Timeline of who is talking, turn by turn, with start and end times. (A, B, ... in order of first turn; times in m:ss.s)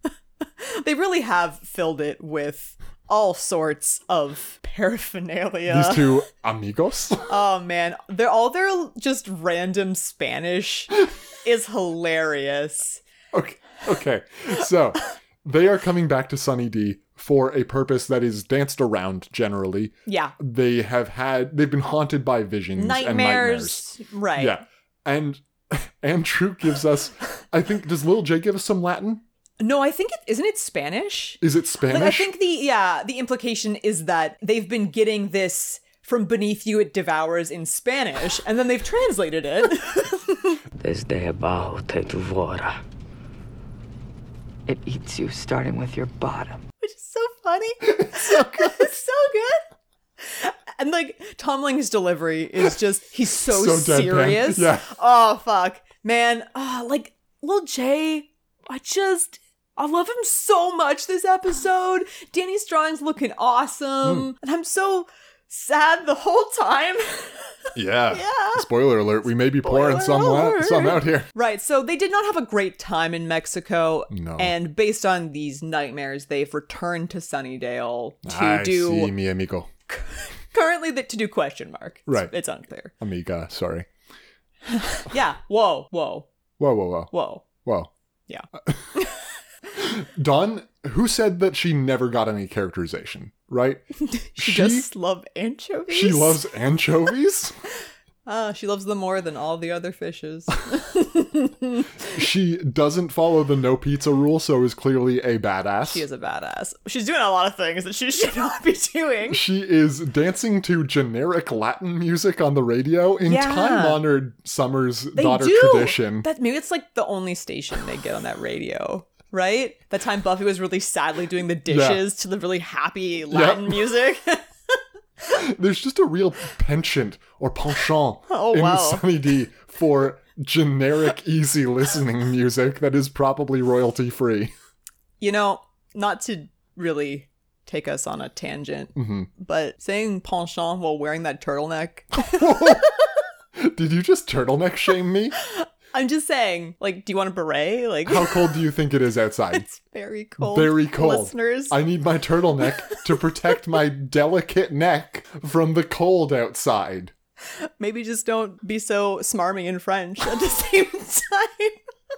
0:00.6-0:06.2 A
0:05.7-0:07.3 B
0:07.3-0:13.0 A
0:13.3-0:29.2 B
0:20.1-0:20.3 A
0:22.8-0:24.6 A
0:29.6-0:40.6 A
0:31.4-0:32.3 B
0:40.8-0:42.8 C
0:44.7-0:46.6 D
0:46.8-0:49.6 A
0:47.8-0:48.9 B
0:50.2-1:07.5 A
0:53.4-0:54.9 B
1:04.0-1:04.3 B
1:07.7-1:11.3 B
1:08.1-1:08.6 A
1:09.6-1:19.1 A
1:14.1-1:14.5 B
1:18.2-1:19.7 B
1:19.9-1:22.9 A
1:22.1-1:22.3 B
1:23.0-1:23.9 B
1:24.7-1:26.3 A
1:26.6-1:27.9 B
1:27.1-1:27.4 A
1:28.3-1:29.2 A
1:29.7-1:33.8 B
1:34.0-1:36.4 A
1:34.4-1:34.9 B
1:35.9-1:37.5 B
1:38.2-1:42.0 A
1:42.0-1:46.0 B
1:45.8-1:49.4 A
1:49.3-1:56.3 B
1:53.2-1:54.0 A
1:55.1-2:04.4 A
2:01.7-2:02.0 B
2:03.3-2:03.9 B
2:05.2-2:14.5 B
2:08.3-2:09.0 A
2:15.2-2:23.1 A
2:19.0-2:19.3 B
2:22.2-2:22.9 B
2:23.6-2:25.4 B
2:25.4-2:28.5 A
2:28.0-2:29.6 B
2:29.5-2:31.8 A
2:30.4-2:37.1 B
2:37.6-2:41.8 A